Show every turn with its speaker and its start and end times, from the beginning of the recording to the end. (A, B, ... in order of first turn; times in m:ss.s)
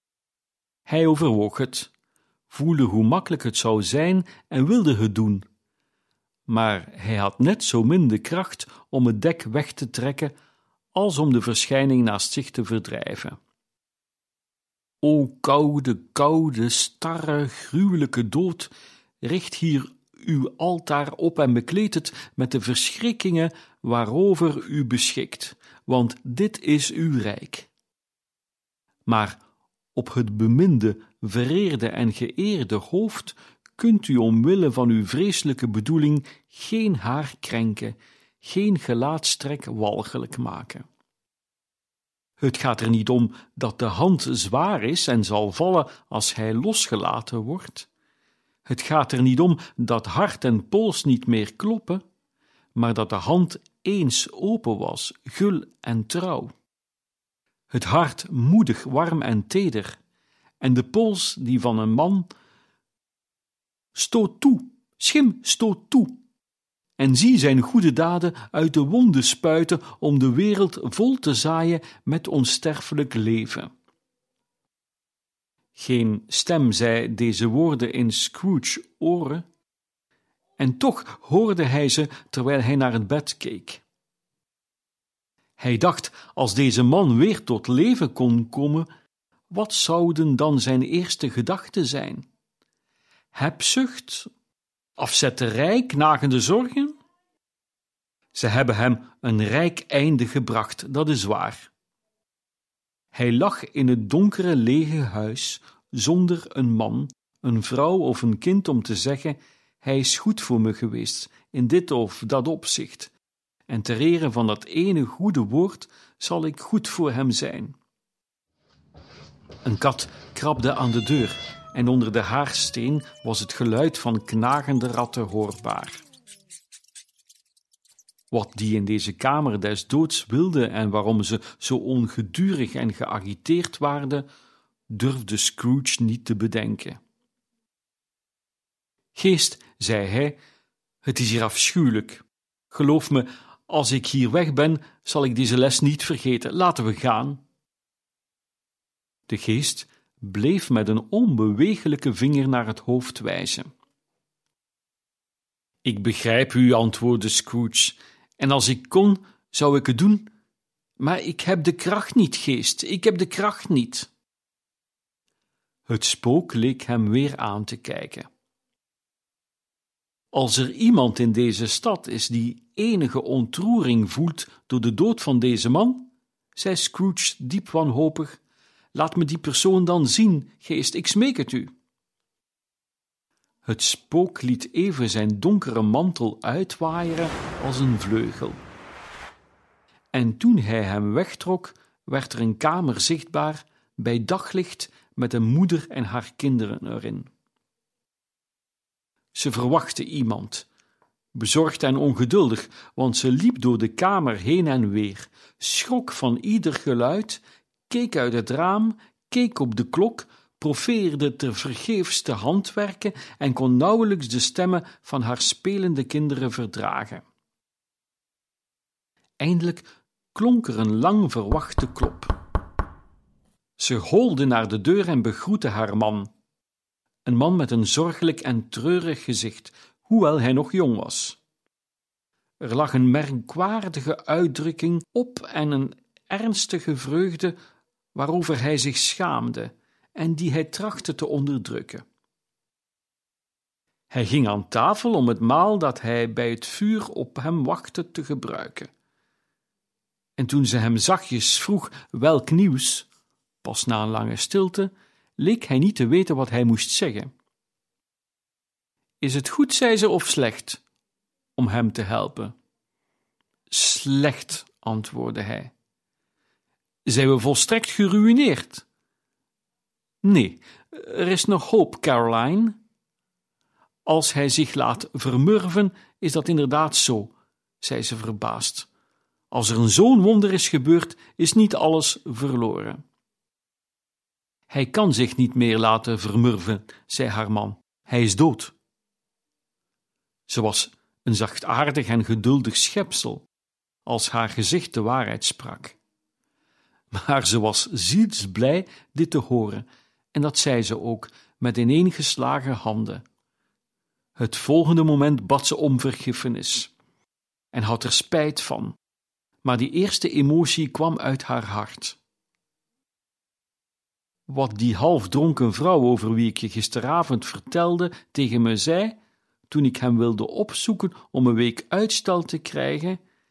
0:00.9-0:01.9 A
0:02.5-0:05.4 A
0:06.5-0:10.3 A
0:10.9-0:13.4 A
0:15.0-0:27.7 A
0:29.1-0:29.4 A
0:29.9-0:40.8 A
0:42.4-0:47.9 A
0:48.6-0:52.0 A
0:52.7-0:56.5 A
0:57.7-1:00.0 A
1:00.6-1:02.3 A
1:03.9-1:06.2 A
1:07.0-1:13.7 A
1:15.8-1:19.4 A
1:20.6-1:23.8 A
1:25.6-1:28.9 A
1:29.5-1:32.2 A
1:33.3-1:34.3 A
1:35.0-1:37.0 A
1:38.3-1:41.7 A
1:43.1-1:53.1 A
1:53.7-1:57.8 A
1:59.6-2:06.0 A
2:08.3-2:14.2 A
2:14.9-2:17.0 A
2:19.1-2:20.4 A
2:21.0-2:27.4 A
2:29.3-2:33.7 A
2:35.8-2:40.3 A
2:41.0-2:44.1 A
2:45.9-2:48.3 A
2:50.3-2:58.4 A
2:58.9-3:01.7 A
3:03.6-3:08.6 A
3:10.1-3:17.3 A
3:19.3-3:20.6 A
3:21.3-3:37.2 A
3:39.4-3:42.3 A
3:43.8-3:46.3 A
3:47.2-3:51.4 A
3:52.6-3:57.6 A
3:58.1-4:02.0 A
4:04.1-4:08.9 A
4:10.4-4:13.1 A
4:13.6-4:17.3 A
4:19.2-4:20.8 A
4:21.6-4:22.5 A
4:23.7-4:25.7 A
4:27.0-4:28.8 A
4:30.2-4:32.8 A
4:34.0-4:38.9 A
4:39.5-4:43.0 A
4:44.7-4:48.7 A
4:50.5-4:53.4 A
4:54.0-4:56.0 A
4:57.1-5:03.2 A
5:04.4-5:06.9 A
5:07.7-5:09.0 A
5:09.6-5:12.2 A
5:14.5-5:19.2 A
5:19.7-5:23.2 A